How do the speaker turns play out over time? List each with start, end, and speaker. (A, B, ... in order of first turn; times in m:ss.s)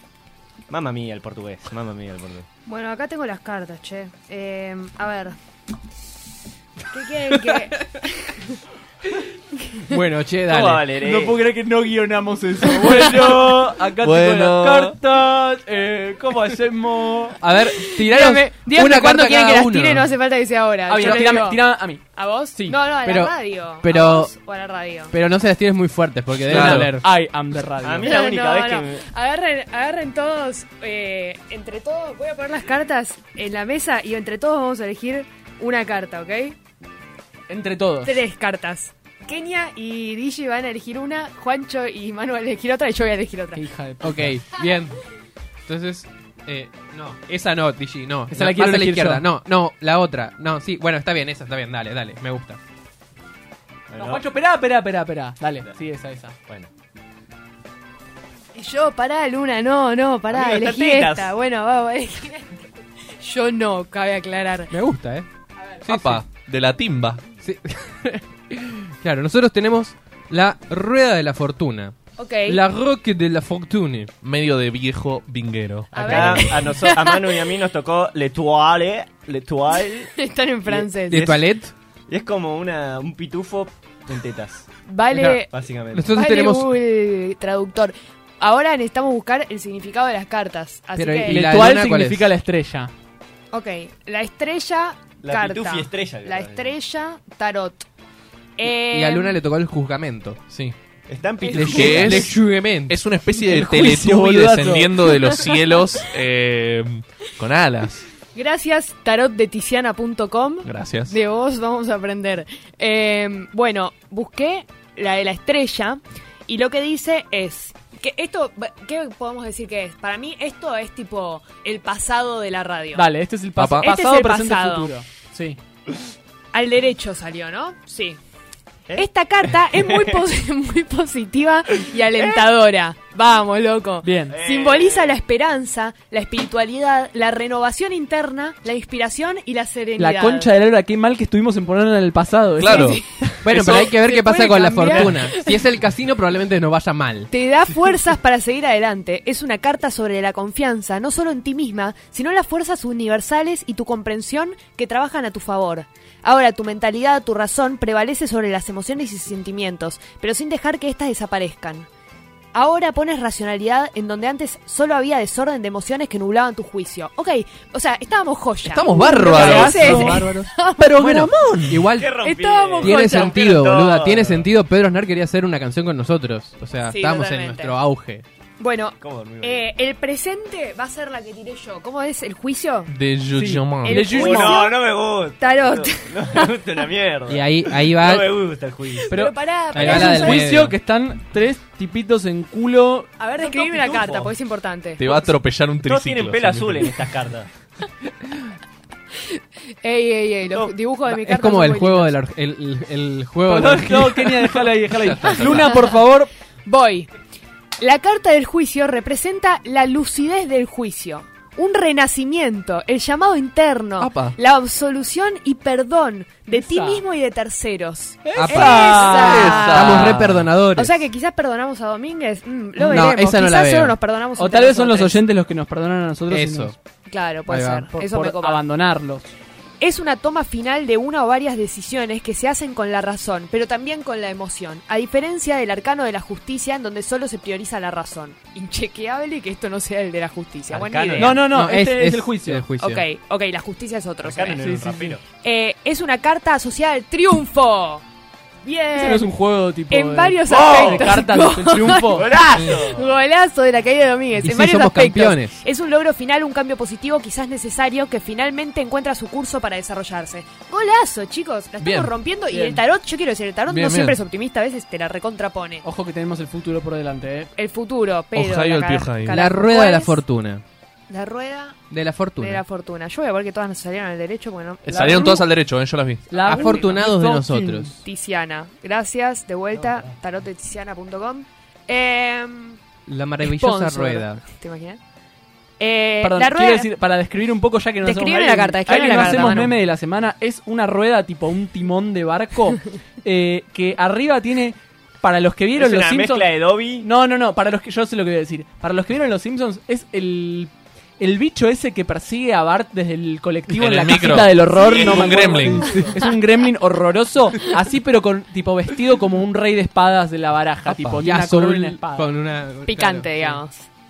0:00.7-0:02.5 A
0:02.6-0:05.4 B
0:06.9-0:08.4 B
0:09.9-0:10.8 C
0:10.5-0:11.4 A
0:10.9-0:17.4 D
0:12.8-0:13.8 A
0:14.0-0:15.0 E
0:17.4-0:20.1 C
0:17.6-0:21.6 B
0:20.9-0:22.0 D
0:22.1-0:25.1 B
0:22.6-0:22.9 D
0:23.0-0:24.3 C
0:25.1-0:27.1 C
0:26.5-0:28.1 D
0:26.5-0:26.9 E
0:27.8-0:29.0 A
0:28.0-0:36.6 B
0:37.5-0:38.2 D
0:38.0-0:43.6 B
0:43.5-0:44.4 D
0:44.0-0:45.0 C
0:45.7-0:52.6 C
0:48.3-0:49.2 D
0:53.9-0:54.3 A
0:54.0-0:56.3 D
0:58.5-1:02.6 B
1:00.3-1:01.3 A
1:03.2-1:04.7 B
1:04.7-1:05.2 C
1:05.8-1:07.2 E
1:07.4-1:11.9 C
1:12.2-1:12.6 B
1:12.4-1:14.1 C
1:14.2-1:16.4 E
1:15.9-1:17.5 B
1:15.9-1:20.1 A
1:20.2-1:21.3 B
1:20.6-1:21.5 A
1:21.1-1:21.7 C
1:22.1-1:26.1 A
1:24.9-1:25.5 B
1:25.9-1:26.7 C
1:26.1-1:31.5 B
1:30.9-1:32.3 C
1:31.2-1:32.9 D
1:33.5-1:37.8 B
1:35.2-1:36.8 A
1:38.6-1:39.4 B
1:38.9-1:40.4 C
1:40.5-1:40.7 E
1:41.1-1:42.3 A
1:41.4-1:42.0 B
1:41.5-1:43.0 C
1:41.6-1:42.3 E
1:42.9-1:48.0 E
1:43.4-1:45.4 D
1:48.3-2:03.1 B
1:50.6-1:51.1 E
2:02.9-2:05.6 D
2:03.6-2:03.9 E
2:03.8-2:04.9 B
2:06.5-2:08.2 B
2:08.9-2:10.2 A
2:09.0-2:20.5 B
2:12.1-2:12.5 A
2:14.0-2:14.4 D
2:14.3-2:15.2 A
2:20.0-2:23.9 D
2:22.6-2:23.0 E
2:22.7-2:25.6 B
2:23.4-2:27.3 C
2:27.3-2:41.9 B
2:42.5-2:51.6 B
2:48.6-2:50.4 E
2:49.2-2:50.3 D
2:50.8-2:52.2 C
2:51.0-2:51.3 D
2:51.2-2:51.7 E
2:51.9-2:54.4 A
2:52.2-2:53.3 B
2:52.8-2:58.2 C
2:56.8-2:57.8 B
2:58.6-3:02.9 B
2:59.0-2:59.7 A
3:02.9-3:04.0 E
3:03.3-3:04.7 D
3:03.8-3:04.8 B
3:04.0-3:09.1 A
3:05.4-3:06.4 B
3:07.3-3:08.3 C
3:09.1-3:10.5 B
3:09.1-3:13.1 D
3:09.7-3:10.8 C
3:13.2-3:15.1 B
3:13.4-3:14.3 A
3:15.0-3:16.9 E
3:15.8-3:17.5 A
3:19.8-3:22.1 B
3:21.0-3:24.3 C
3:23.4-3:26.3 D
3:25.0-3:25.7 E
3:25.2-3:26.0 B
3:26.6-3:27.1 B
3:27.8-3:40.2 B
3:34.0-3:34.4 E
3:36.5-3:37.0 D
3:38.2-3:40.0 D
3:38.4-3:41.0 C
3:38.5-3:40.5 E
3:40.7-3:45.2 B
3:42.8-3:44.0 C
3:44.4-3:46.7 D
3:46.3-3:46.7 C
3:47.1-3:48.6 B
3:47.5-3:47.9 C
3:48.0-3:49.3 D
3:49.8-4:01.5 B
4:00.7-4:01.4 A
4:01.2-4:02.7 D
4:01.5-4:03.0 C
4:02.8-4:04.6 B
4:04.2-4:05.2 A
4:04.6-4:05.2 D
4:05.4-4:08.0 B
4:08.6-4:09.3 B
4:08.9-4:12.4 D
4:09.9-4:25.8 B
4:10.5-4:11.2 A
4:12.1-4:13.1 A
4:14.4-4:15.6 C
4:21.8-4:22.1 E
4:22.5-4:22.8 D
4:23.7-4:24.2 E
4:25.8-4:27.5 D
4:27.6-4:30.2 B
4:28.3-4:29.4 E
4:29.3-4:30.6 C
4:31.1-4:31.8 B
4:31.9-4:32.6 C
4:32.4-4:35.4 B
4:34.8-4:36.3 E
4:34.9-4:35.4 D
4:36.3-4:37.9 D
4:36.3-4:37.0 B
4:36.4-4:38.0 C
4:37.9-4:42.8 B
4:39.7-4:40.1 A
4:43.1-4:44.4 C
4:43.4-4:45.0 B
4:45.8-4:46.9 B
4:46.2-4:56.5 D
4:48.0-4:49.8 B
4:55.7-4:57.1 A
4:57.0-5:12.3 D
5:03.7-5:06.0 E
5:04.8-5:05.4 A
5:11.0-5:13.6 C
5:12.8-5:13.8 B